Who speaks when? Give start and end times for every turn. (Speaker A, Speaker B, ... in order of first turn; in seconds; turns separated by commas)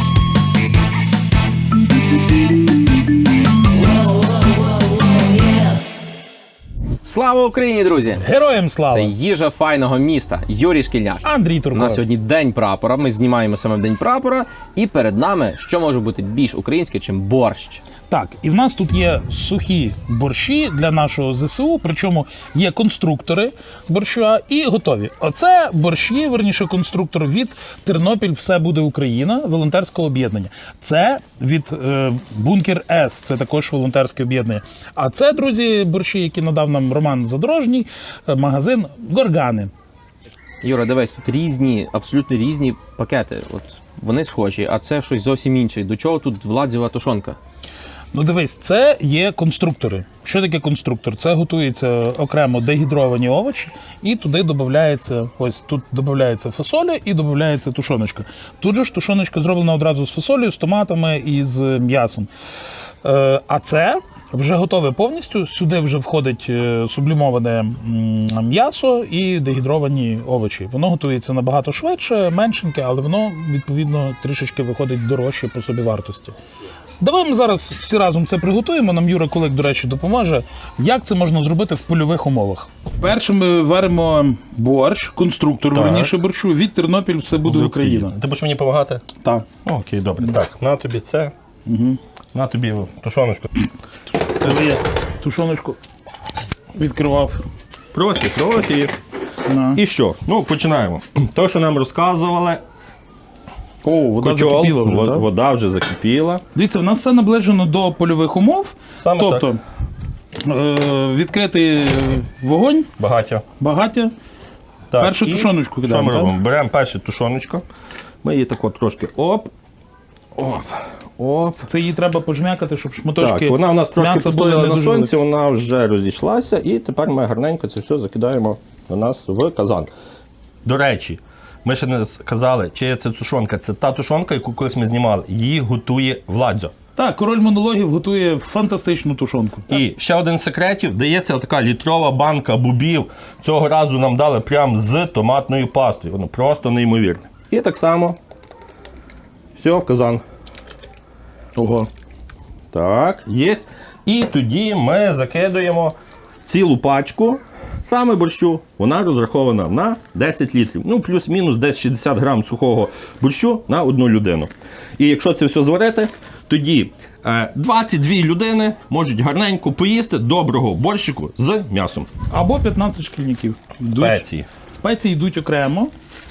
Speaker A: 7.0-8.2, Speaker B: 8.2-9.1, Speaker A: 8.9-17.8, Speaker B: 11.2-12.0, Speaker B: 18.1-39.7, Speaker A: 40.6-47.4, Speaker B: 48.1-62.3, Speaker B: 63.0-76.3, Speaker B: 77.0-88.1, Speaker C: 85.7-86.1, Speaker C: 87.4-89.1, Speaker B: 89.2-89.5, Speaker C: 89.7-91.3, Speaker B: 91.7-92.0, Speaker C: 92.3-93.5, Speaker B: 94.3-95.8, Speaker B: 96.7-97.4, Speaker C: 97.9-98.9, Speaker B: 99.5-99.8, Speaker C: 99.7-102.6, Speaker B: 103.8-105.2, Speaker C: 104.2-106.4, Speaker B: 106.5-109.6, Speaker C: 109.0-109.5, Speaker B: 110.4-112.9, Speaker C: 113.0-113.4, Speaker B: 113.6-114.1, Speaker C: 114.9-117.6, Speaker B: 115.0-116.3, Speaker C: 118.2-119.5, Speaker C: 120.3-121.7, Speaker B: 121.7-125.1, Speaker C: 123.2-129.9, Speaker C: 130.6-136.7, Speaker B: 137.0-139.8, Speaker C: 139.7-148.2, Speaker C: 149.5-150.2, Speaker B: 151.6-151.9, Speaker C: 152.7-155.9, Speaker C: 156.4-172.1, Speaker B: 172.3-175.9, Speaker C: 173.9-174.5